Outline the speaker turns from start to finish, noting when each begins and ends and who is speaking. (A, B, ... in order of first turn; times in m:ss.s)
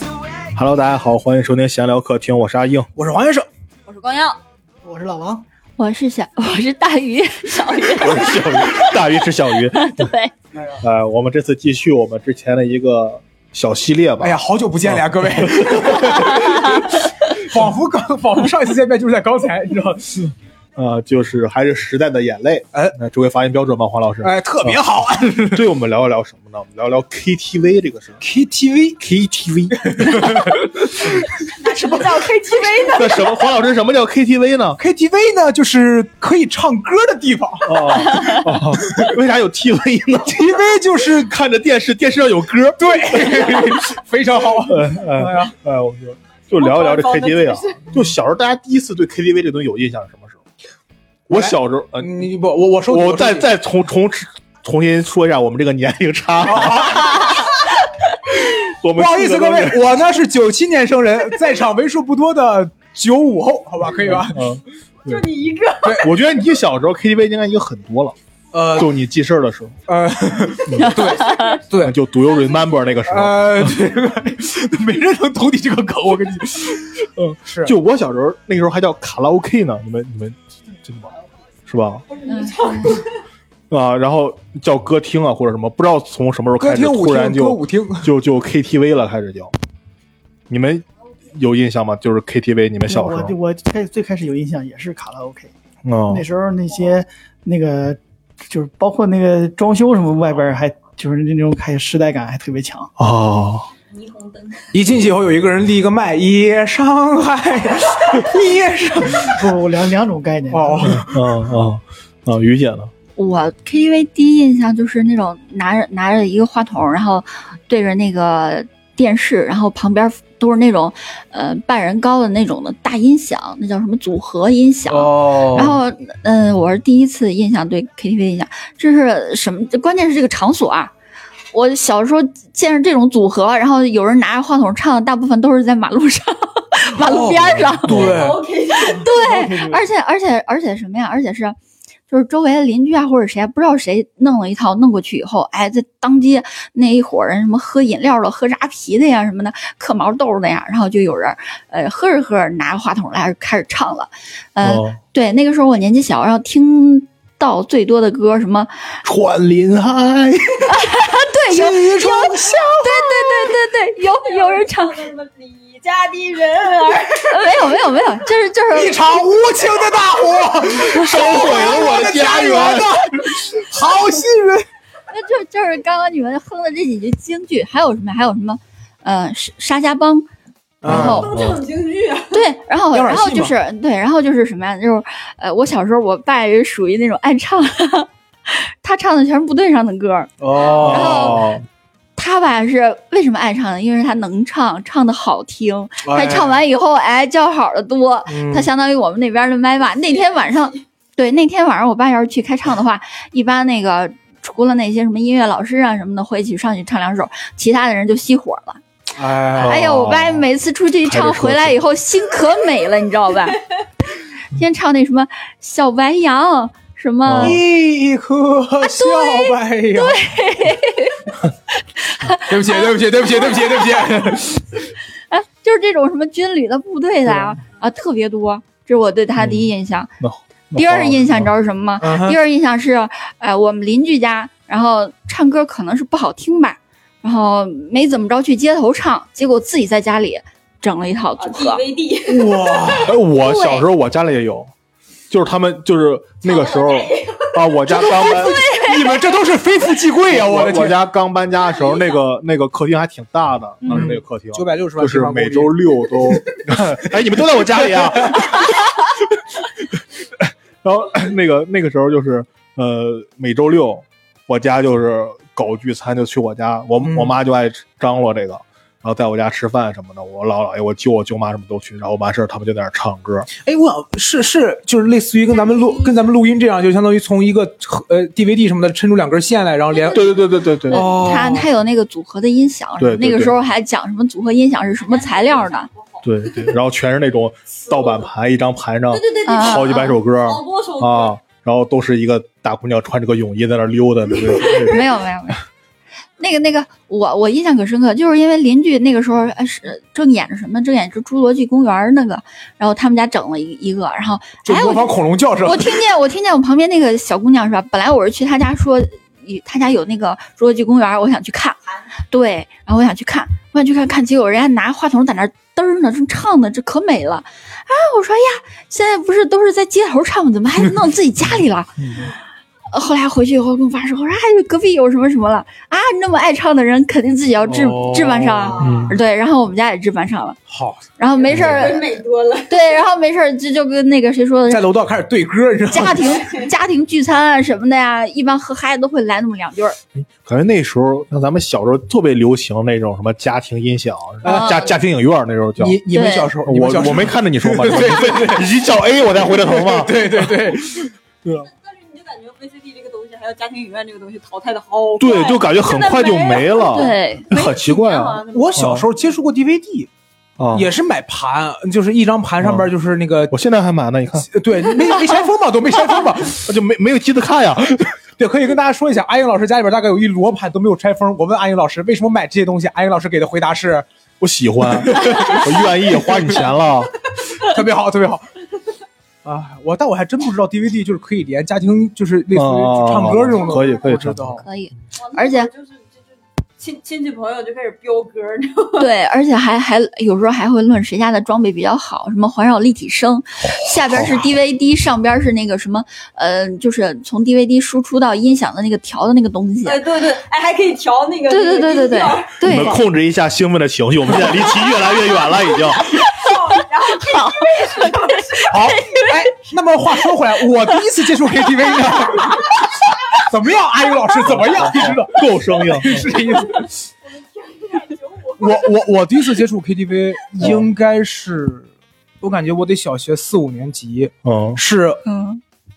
0:00.5-0:02.9 A
0:03.0-0:03.5 B
0:03.9-0:04.4 C
0:04.8-0:05.4 D
0:05.8-0:09.0 E
0:07.5-0:08.5 C
0:08.0-0:10.1 A
0:09.7-0:10.3 E
0:10.5-0:10.8 B
0:10.8-0:16.4 A
0:14.2-0:20.3 B
0:20.8-0:24.8 A
0:24.2-0:25.7 B
0:25.5-0:28.2 A
0:28.2-0:29.0 B
0:29.0-0:30.4 A
0:29.7-0:31.1 B
0:31.4-0:33.5 C
0:31.7-0:32.3 B
0:32.8-0:34.8 A
0:34.8-0:39.1 B
0:37.6-0:40.5 A
0:40.3-0:41.3 B
0:41.1-0:43.8 A
0:42.8-0:45.5 B
0:44.6-0:50.4 A
0:46.6-0:47.9 C
0:51.3-0:52.3 A
0:51.3-0:53.5 B
0:52.9-0:57.5 A
0:56.4-0:57.6 B
0:58.3-1:04.5 B
0:58.5-1:00.0 A
1:03.9-1:05.2 A
1:05.0-1:06.1 C
1:05.8-1:06.1 B
1:05.9-1:08.2 A
1:08.5-1:09.0 B
1:08.7-1:09.8 A
1:09.9-1:12.0 B
1:10.7-1:11.0 A
1:10.9-1:11.6 C
1:11.2-1:11.5 E
1:11.8-1:13.8 A
1:13.1-1:17.8 B
1:17.2-1:21.1 A
1:21.7-1:22.0 A
1:22.1-1:23.1 C
1:22.3-1:23.0 E
1:23.7-1:29.5 A
1:26.6-1:28.1 B
1:30.5-1:33.4 A
1:32.9-1:35.5 D
1:35.8-1:36.3 A
1:36.1-1:42.9 D
1:43.0-1:43.7 A
1:43.9-1:44.8 C
1:44.7-1:49.6 B
1:49.0-1:51.0 D
1:50.5-1:51.4 B
1:50.8-1:52.9 A
1:53.2-2:10.9 E
2:04.9-2:05.8 B
2:11.5-2:21.6 E
2:17.0-2:18.4 B
2:17.5-2:18.3 A
2:18.0-2:19.0 C
2:18.9-2:19.8 D
2:22.1-2:39.0 E
2:34.6-2:35.0 A
2:39.0-2:40.8 A
2:40.7-2:45.1 E
2:41.5-2:43.3 B
2:44.1-2:47.7 C
2:47.3-2:49.2 E
2:48.7-2:54.7 B
2:50.9-2:53.0 A
2:51.0-2:52.0 E
2:51.5-2:52.9 C
2:55.1-3:00.3 E
3:00.8-3:01.3 B
3:00.8-3:01.3 E
3:00.8-3:01.6 A
3:00.9-3:02.5 C
3:02.3-3:11.4 E
3:02.9-3:03.5 B
3:10.4-3:11.5 B
3:10.8-3:11.7 A
3:12.2-3:28.8 E
3:16.0-3:16.6 B
3:18.3-3:18.7 B
3:29.2-3:29.8 B
3:29.6-3:30.5 A
3:29.6-3:33.6 E
3:31.0-3:31.8 A
3:34.5-3:37.6 E
3:37.2-3:37.6 A
3:37.4-3:40.2 B
3:38.8-3:44.4 E
3:42.5-3:44.7 B
3:45.3-3:50.1 E
3:47.3-3:47.6 A
3:49.4-3:51.5 A
3:50.7-4:01.8 E
3:52.0-3:52.4 B
4:01.4-4:02.8 C
4:02.3-4:03.2 B
4:03.0-4:04.7 A
4:03.3-4:03.8 E
4:05.3-4:08.6 A
4:06.4-4:07.6 C
4:07.9-4:11.0 B
4:08.4-4:09.1 E
4:10.3-4:18.7 A
4:11.8-4:12.1 C
4:13.9-4:18.5 B
4:19.9-4:33.5 A
4:27.0-4:27.4 B
4:33.6-4:41.7 B
4:35.5-4:36.3 C
4:39.9-4:40.3 C
4:40.1-4:41.0 A
4:40.9-4:45.9 E
4:43.0-4:43.6 A
4:45.0-4:46.7 C
4:46.2-4:55.1 A
4:47.8-4:48.3 C
4:49.1-4:51.4 C
4:49.4-4:50.2 E
4:54.6-4:55.6 E
4:56.4-5:11.8 E
5:04.6-5:06.0 B
5:12.3-5:22.3 E
5:21.5-5:22.2 A
5:22.9-5:30.6 E
5:27.7-5:29.0 B
5:28.7-5:29.2 C
5:28.8-5:29.2 A
5:30.7-5:31.0 B
5:31.2-5:32.1 E
5:31.4-5:33.0 C
5:31.5-5:32.0 A
5:32.7-5:34.8 E
5:34.7-5:36.4 B
5:35.9-5:40.0 E
5:36.4-5:36.7 C
5:40.2-5:46.0 A
5:44.4-5:44.9 B
5:44.4-5:44.9 E
5:45.8-5:48.8 B
5:46.1-5:46.5 E
5:46.6-5:50.7 A
5:49.4-5:51.1 B
5:51.5-5:59.0 C
5:55.2-5:59.1 A
5:56.8-5:57.5 E
5:58.5-6:00.1 B
6:00.6-6:00.9 A
6:00.7-6:03.6 B
6:02.6-6:02.9 A
6:03.5-6:04.5 A
6:04.5-6:06.7 B
6:06.6-6:08.1 A
6:08.4-6:14.1 B
6:14.4-6:17.1 A
6:15.1-6:16.7 B
6:17.5-6:18.5 B
6:19.4-6:24.6 B
6:22.5-6:24.7 A
6:23.4-6:24.1 C
6:24.6-6:25.7 E
6:25.2-6:29.1 C
6:29.0-6:40.0 E
6:34.1-6:34.5 A
6:39.8-6:42.6 C
6:41.5-6:43.0 E
6:42.6-6:46.2 A
6:45.0-6:49.3 C
6:47.3-6:49.3 E
6:48.7-6:52.8 B
6:53.4-6:57.0 B
6:54.5-6:56.3 A
6:56.6-6:59.0 C
6:58.6-7:01.9 B
7:00.6-7:00.9 A
7:02.4-7:05.2 B
7:04.4-7:04.8 A
7:05.2-7:05.6 E